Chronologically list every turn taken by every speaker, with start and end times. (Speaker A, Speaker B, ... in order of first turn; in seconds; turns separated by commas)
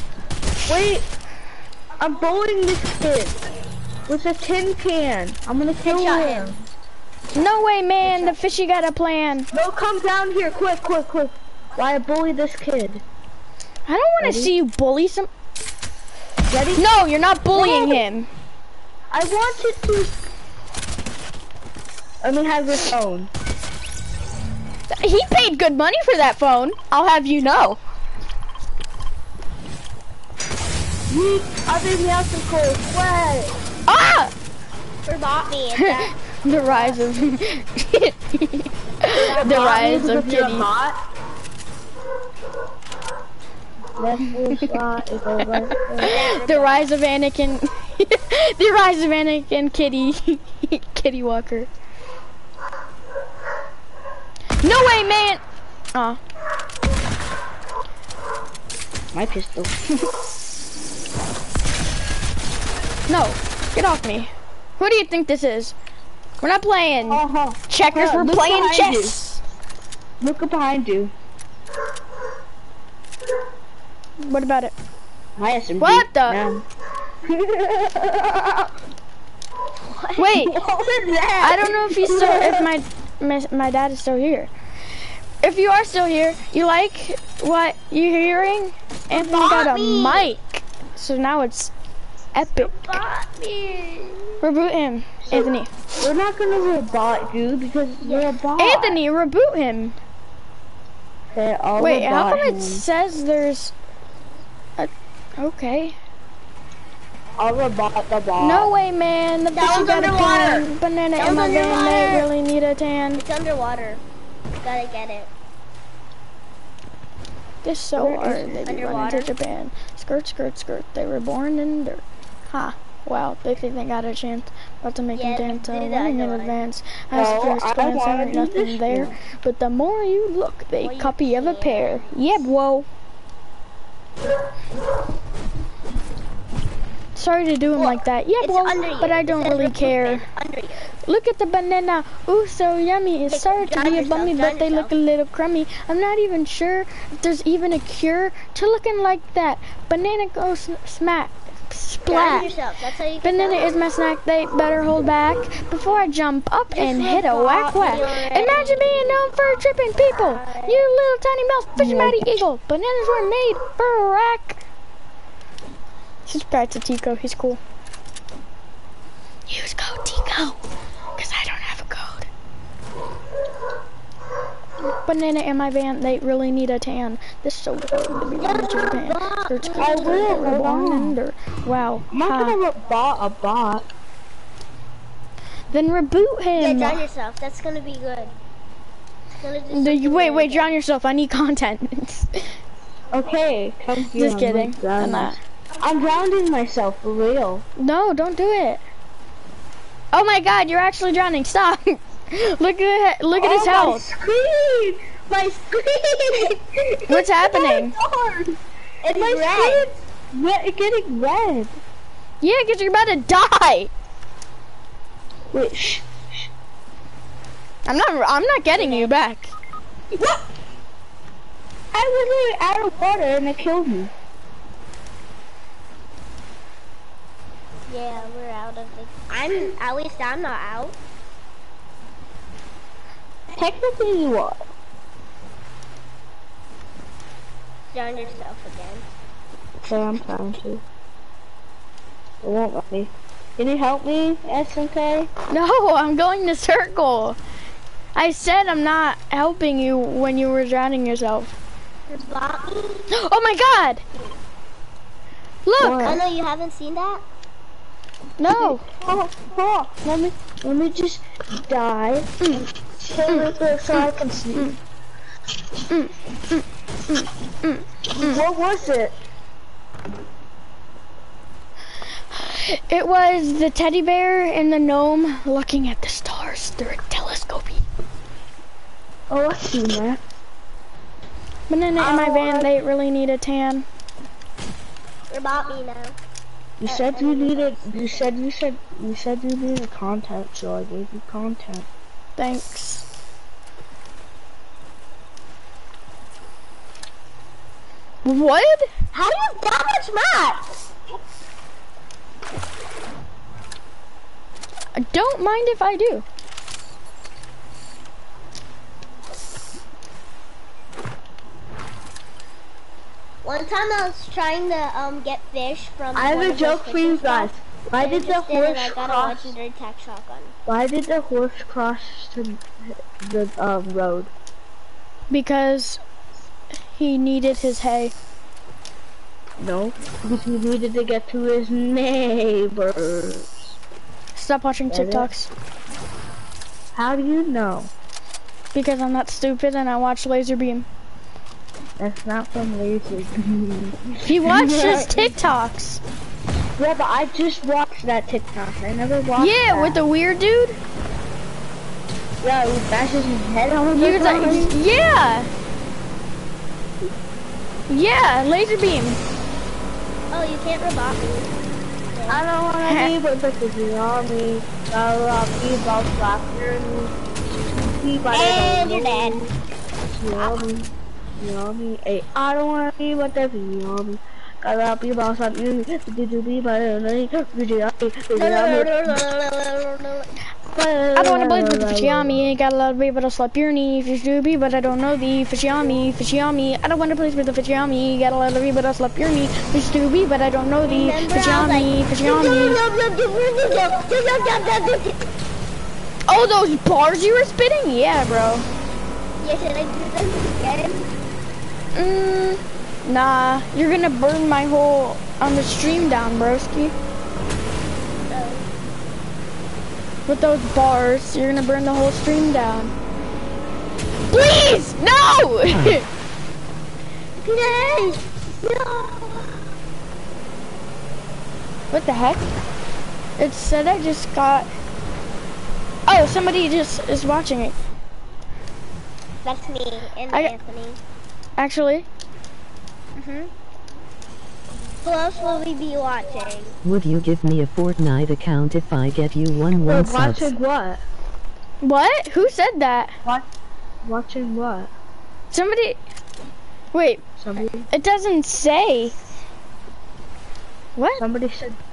Speaker A: 0.7-1.1, Speaker A: 2.0-3.4, Speaker A: 4.1-6.7, Speaker B: 5.8-6.5, Speaker C: 7.3-9.5, Speaker A: 9.5-13.0, Speaker C: 13.9-15.3, Speaker A: 14.2-14.5, Speaker A: 16.5-16.8, Speaker C: 16.8-18.3, Speaker A: 17.5-18.0, Speaker A: 19.1-20.1, Speaker A: 22.2-23.3, Speaker C: 24.9-27.8, Speaker A: 31.1-33.5, Speaker C: 33.9-34.3, Speaker B: 35.1-37.1, Speaker C: 35.8-40.7, Speaker B: 39.1-39.9, Speaker A: 39.3-41.0, Speaker A: 44.0-46.2, Speaker C: 44.3-44.8, Speaker C: 45.5-51.7, Speaker B: 46.0-46.9, Speaker C: 54.6-55.4, Speaker C: 55.9-56.2, Speaker A: 59.1-60.1, Speaker C: 63.1-65.8, Speaker C: 66.4-69.4, Speaker A: 67.1-69.2, Speaker A: 70.2-71.1, Speaker C: 74.2-74.7, Speaker A: 75.4-76.7, Speaker C: 75.8-76.4, Speaker A: 77.2-78.7, Speaker B: 79.9-80.3, Speaker C: 80.2-80.6, Speaker A: 80.3-82.7, Speaker C: 81.4-84.5, Speaker C: 85.4-91.7, Speaker B: 89.1-90.3, Speaker C: 92.3-93.0, Speaker B: 92.6-94.4, Speaker C: 94.4-95.7, Speaker A: 95.3-99.0, Speaker B: 98.0-98.3, Speaker C: 98.6-100.0, Speaker A: 101.3-102.8, Speaker C: 101.8-103.7, Speaker C: 104.8-106.0, Speaker A: 107.4-108.7, Speaker C: 108.4-113.2, Speaker B: 109.5-112.3, Speaker B: 113.2-114.0, Speaker B: 114.6-115.3, Speaker C: 117.6-132.9, Speaker A: 118.0-118.6, Speaker B: 118.6-119.3, Speaker B: 125.1-126.6, Speaker A: 127.1-129.2, Speaker B: 130.8-132.4, Speaker C: 137.2-140.2, Speaker B: 137.8-140.9, Speaker C: 141.1-152.5, Speaker B: 143.3-144.9, Speaker B: 152.1-153.8, Speaker C: 153.2-164.6, Speaker B: 156.7-159.6, Speaker B: 160.1-160.9, Speaker A: 161.8-162.4, Speaker C: 166.3-167.6, Speaker C: 169.5-170.6, Speaker C: 171.2-172.3, Speaker C: 175.1-182.6, Speaker B: 178.4-180.6, Speaker A: 179.8-181.2, Speaker A: 182.1-183.9, Speaker C: 185.7-187.1, Speaker B: 186.6-188.3, Speaker B: 189.4-190.7, Speaker C: 189.7-192.5, Speaker A: 193.1-197.7, Speaker C: 194.2-195.4, Speaker C: 197.8-198.8, Speaker C: 200.1-204.1, Speaker A: 203.3-211.8, Speaker C: 207.1-207.9, Speaker B: 209.0-209.9, Speaker C: 212.4-213.9, Speaker A: 215.5-216.5, Speaker C: 217.9-219.5, Speaker B: 218.8-219.1, Speaker A: 221.9-224.1, Speaker B: 227.9-231.0, Speaker A: 233.6-234.6, Speaker B: 237.9-239.1, Speaker A: 239.8-240.8, Speaker A: 242.4-245.3, Speaker C: 245.5-247.4, Speaker C: 248.2-251.5, Speaker B: 252.1-253.1, Speaker C: 253.1-254.0, Speaker C: 255.7-256.2, Speaker A: 255.8-256.2, Speaker B: 256.0-257.2, Speaker C: 258.4-258.8, Speaker A: 258.6-264.7, Speaker C: 263.3-264.8, Speaker C: 265.9-268.4, Speaker A: 268.1-269.2, Speaker C: 272.3-277.8, Speaker A: 279.3-280.2, Speaker C: 281.7-283.9, Speaker A: 282.0-282.7, Speaker B: 285.3-286.1, Speaker A: 286.8-291.9, Speaker B: 286.9-288.3, Speaker C: 292.4-293.1, Speaker C: 298.2-298.9, Speaker B: 299.1-300.7, Speaker C: 305.0-306.2, Speaker B: 313.4-320.5, Speaker A: 316.1-319.6, Speaker A: 320.7-324.3, Speaker C: 325.3-326.0, Speaker C: 326.9-328.1, Speaker A: 329.6-333.8, Speaker C: 334.4-335.5, Speaker A: 334.9-335.3, Speaker A: 336.9-337.9, Speaker C: 338.7-340.9, Speaker A: 342.0-345.4, Speaker C: 344.3-346.0, Speaker A: 346.8-350.0, Speaker C: 349.4-350.8, Speaker A: 352.4-354.8, Speaker C: 354.0-355.5, Speaker C: 357.9-359.2, Speaker B: 360.3-361.6, Speaker B: 362.1-362.4, Speaker A: 362.3-367.2, Speaker C: 362.9-363.1, Speaker A: 367.9-369.5, Speaker B: 368.3-369.4, Speaker A: 370.1-379.2, Speaker B: 370.3-370.7, Speaker B: 378.4-380.3, Speaker A: 380.7-382.4, Speaker C: 381.1-392.8, Speaker B: 390.8-395.3, Speaker C: 396.3-398.7, Speaker B: 399.4-401.1, Speaker C: 401.9-406.9, Speaker B: 408.3-408.7, Speaker C: 410.3-412.9, Speaker C: 414.3-416.1, Speaker D: 415.7-416.0, Speaker B: 417.4-419.7, Speaker C: 421.9-422.4, Speaker C: 423.4-424.7, Speaker C: 426.1-427.8, Speaker B: 429.4-431.0, Speaker C: 431.6-432.1, Speaker B: 433.2-433.5, Speaker B: 435.0-436.8, Speaker D: 436.8-440.5, Speaker A: 439.9-441.0, Speaker C: 441.8-443.1, Speaker A: 444.0-444.9, Speaker C: 445.5-446.0, Speaker C: 446.9-447.2, Speaker A: 447.4-447.9, Speaker C: 447.9-449.2, Speaker C: 451.0-451.2, Speaker A: 451.2-451.8